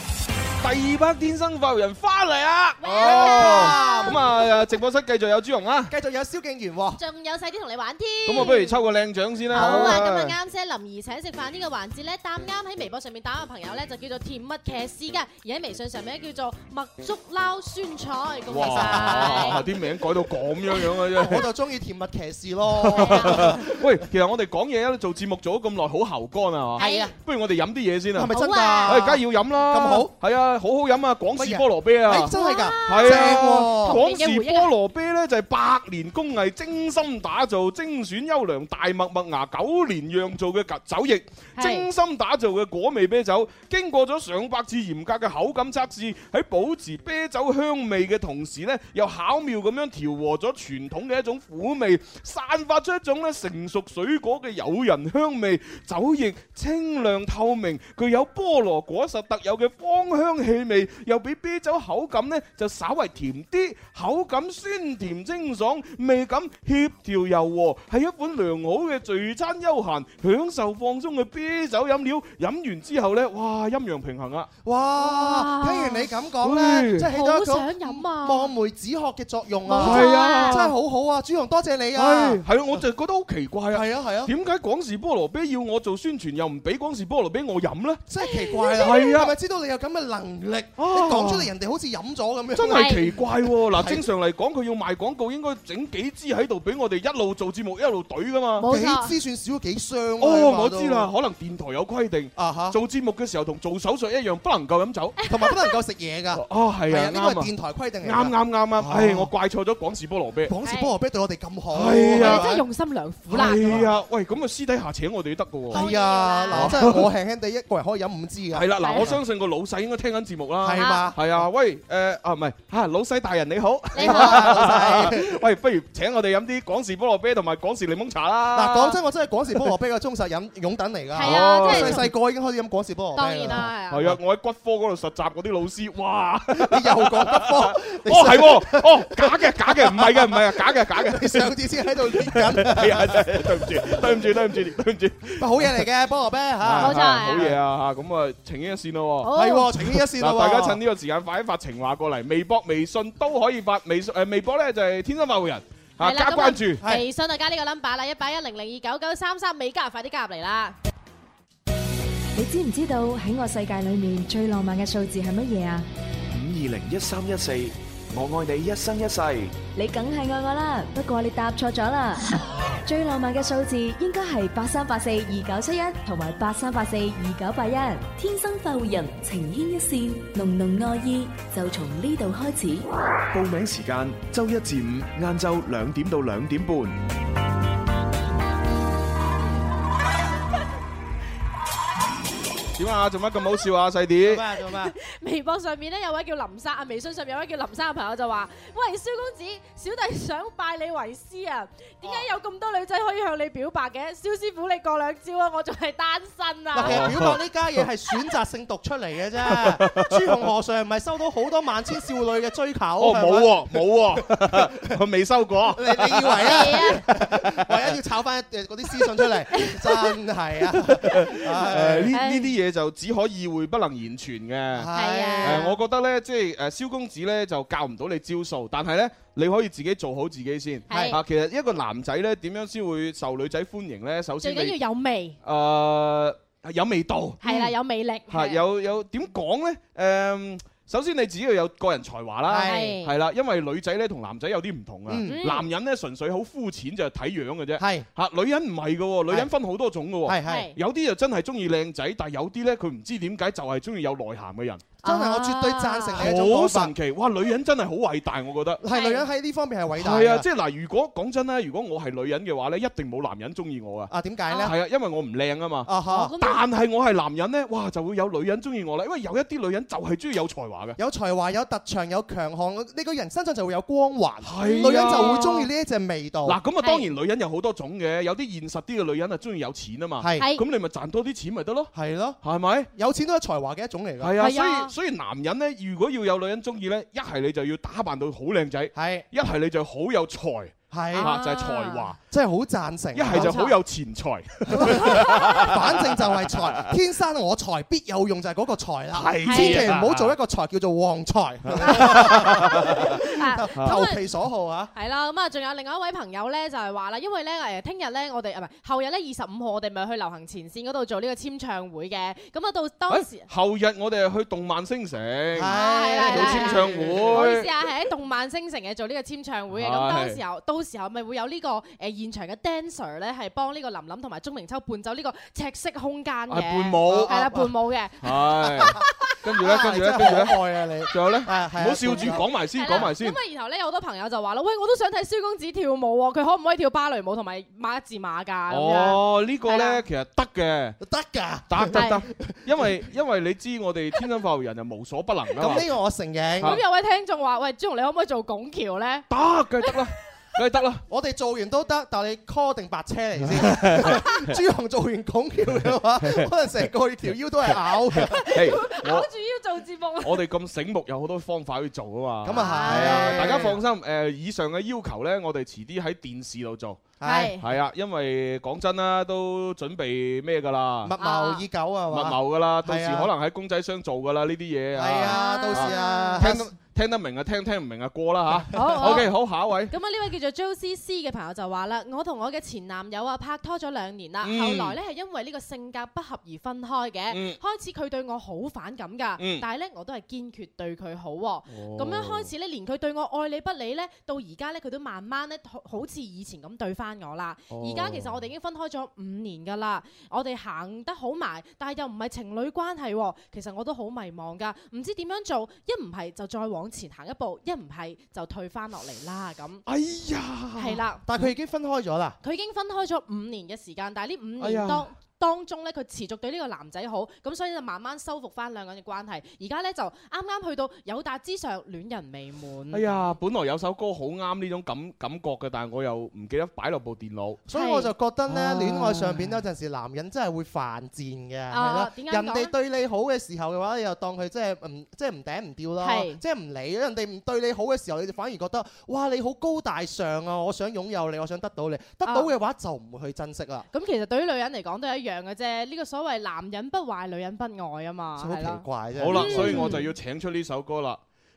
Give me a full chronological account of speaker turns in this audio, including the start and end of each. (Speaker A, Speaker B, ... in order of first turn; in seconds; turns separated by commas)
Speaker A: 0.6-5.9, Speaker B: 2.8-4.3, Speaker C: 3.0-4.3, Speaker C: 5.9-7.0, Speaker B: 7.0-8.8, Speaker A: 8.3-10.4, Speaker C: 9.5-10.0, Speaker B: 9.5-19.6, Speaker A: 18.5-21.5, Speaker C: 18.7-19.7, Speaker C: 21.1-23.9, Speaker A: 22.8-28.3, Speaker B: 22.9-23.6, Speaker B: 26.8-27.1, Speaker C: 26.8-27.1, Speaker C: 28.1-30.1, Speaker B: 28.3-29.1, Speaker A: 28.9-32.3, Speaker C: 31.4-34.0, Speaker B: 32.3-34.7, Speaker A: 32.9-74.5, Speaker B: 41.6-41.9, Speaker C: 74.6-82.8, Speaker B: 75.0-76.1, Speaker A: 76.4-77.1, Speaker B: 77.0-78.5, Speaker B: 79.7-80.7, Speaker A: 79.8-80.7, Speaker A: 82.0-88.0, Speaker C: 83.7-84.3, Speaker C: 88.1-94.1, Speaker B: 88.2-89.1, Speaker A: 88.8-89.3, Speaker A: 90.8-91.5, Speaker A: 92.5-98.7, Speaker B: 92.7-93.0, Speaker B: 98.6-99.1, Speaker C: 98.7-101.1, Speaker A: 100.2-105.2, Speaker C: 102.4-102.8, Speaker B: 105.2-105.7, Speaker C: 105.3-109.3, Speaker A: 106.3-107.5, Speaker A: 108.0-110.5, Speaker C: 110.5-112.5, Speaker B: 110.6-110.9, Speaker A: 111.7-112.6, Speaker B: 112.2-113.8, Speaker A: 113.3-115.9, Speaker C: 113.3-113.9, Speaker C: 115.7-119.2, Speaker B: 115.7-116.8, Speaker A: 116.5-117.1, Speaker A: 118.5-128.9, Speaker B: 118.8-119.1, Speaker C: 120.6-121.2, Speaker B: 120.8-121.1, Speaker B: 124.0-124.8, Speaker C: 124.0-125.3, Speaker C: 128.5-133.7, Speaker B: 131.2-132.1, Speaker A: 131.2-132.1, Speaker B: 133.2-134.1, Speaker A: 133.9-145.8, Speaker C: 136.6-144.4, Speaker C: 145.3-147.6, Speaker A: 146.6-156.8, Speaker B: 146.8-147.4, Speaker B: 149.2-149.7, Speaker C: 149.3-150.8, Speaker B: 156.0-160.8, Speaker D: 162.3-165.9, Speaker E: 166.3-169.6, Speaker D: 169.7-172.3, Speaker D: 172.8-182.9, Speaker E: 183.3-187.0, Speaker A: 192.8-194.4, Speaker C: 194.2-194.9, Speaker B: 194.8-207.1, Speaker C: 206.7-214.7, Speaker A: 206.8-207.4, Speaker A: 209.5-210.3, Speaker A: 213.0-216.7, Speaker C: 215.7-222.2, Speaker B: 216.4-217.1, Speaker B: 219.6-220.1, Speaker A: 220.9-224.9, Speaker B: 222.1-222.5, Speaker C: 224.8-225.7, Speaker B: 224.9-225.7, Speaker A: 225.4-234.8, Speaker B: 230.9-231.2, Speaker C: 230.9-231.2, Speaker B: 234.4-235.4, Speaker A: 235.4-237.7, Speaker B: 237.4-238.6, Speaker A: 238.3-254.9, Speaker C: 242.5-242.9, Speaker B: 242.6-243.1, Speaker C: 245.1-245.4, Speaker B: 245.3-245.7, Speaker C: 247.8-248.1, Speaker C: 250.2-250.7, Speaker B: 250.5-250.8, Speaker B: 255.0-256.2, Speaker C: 255.0-256.9, Speaker A: 256.2-258.8, Speaker C: 258.8-260.5, Speaker B: 258.9-259.3, Speaker A: 260.0-264.1, Speaker C: 264.1-264.8, Speaker A: 264.6-271.0, Speaker C: 265.9-266.4, Speaker B: 266.1-266.6, Speaker C: 271.0-276.6, Speaker A: 274.4-275.7, Speaker B: 274.6-275.6, Speaker A: 276.4-281.9, Speaker B: 276.8-277.1, Speaker C: 280.2-280.5, Speaker B: 280.4-280.6, Speaker C: 281.9-282.4, Speaker A: 282.4-282.9, Speaker C: 282.9-284.4, Speaker A: 284.2-292.2, Speaker B: 284.4-284.9, Speaker C: 288.9-289.3, Speaker C: 290.9-291.3, Speaker B: 291.1-292.1, Speaker C: 292.3-293.6, Speaker A: 293.1-297.0, Speaker B: 293.3-293.8, Speaker C: 294.7-304.9, Speaker B: 294.8-295.7, Speaker A: 299.1-300.3, Speaker B: 299.5-299.9, Speaker A: 301.6-303.1, Speaker B: 301.8-304.2, Speaker B: 304.9-313.5, Speaker A: 313.1-317.7, Speaker C: 315.6-317.5, Speaker B: 315.7-329.0, Speaker A: 319.7-320.4, Speaker A: 326.5-327.4, Speaker C: 327.1-327.7, Speaker A: 328.2-330.6, Speaker C: 329.6-332.5, Speaker A: 331.1-333.4, Speaker B: 332.7-340.0, Speaker A: 338.7-341.0, Speaker C: 341.0-342.9, Speaker A: 341.7-345.9, Speaker B: 341.9-342.2, Speaker C: 345.6-346.8, Speaker B: 346.6-349.3, Speaker A: 349.3-351.0, Speaker C: 351.1-358.4, Speaker A: 353.5-354.6, Speaker A: 355.8-356.5, Speaker A: 358.1-359.3, Speaker B: 358.2-360.4, Speaker A: 360.2-371.1, Speaker C: 362.4-363.8, Speaker B: 362.5-363.6, Speaker C: 367.2-367.6, Speaker B: 367.2-367.6, Speaker C: 371.0-373.3, Speaker B: 371.2-371.6, Speaker A: 372.1-379.9, Speaker C: 374.9-376.7, Speaker B: 375.2-376.5, Speaker B: 378.7-379.3, Speaker C: 378.9-379.2, Speaker B: 379.9-409.8, Speaker A: 384.4-385.0, Speaker A: 387.3-387.6, Speaker A: 389.4-389.6, Speaker A: 391.7-392.5, Speaker A: 397.7-398.4, Speaker A: 409.9-411.4, Speaker B: 410.8-411.2, Speaker C: 411.3-412.4, Speaker B: 412.4-423.3, Speaker A: 414.6-415.1, Speaker A: 422.9-427.6, Speaker C: 427.7-443.9, Speaker B: 427.7-428.1, Speaker A: 428.5-429.6, Speaker B: 431.7-432.7, Speaker B: 436.0-436.4, Speaker B: 442.2-442.5, Speaker B: 443.9-450.1, Speaker C: 448.4-450.0, Speaker A: 449.2-451.2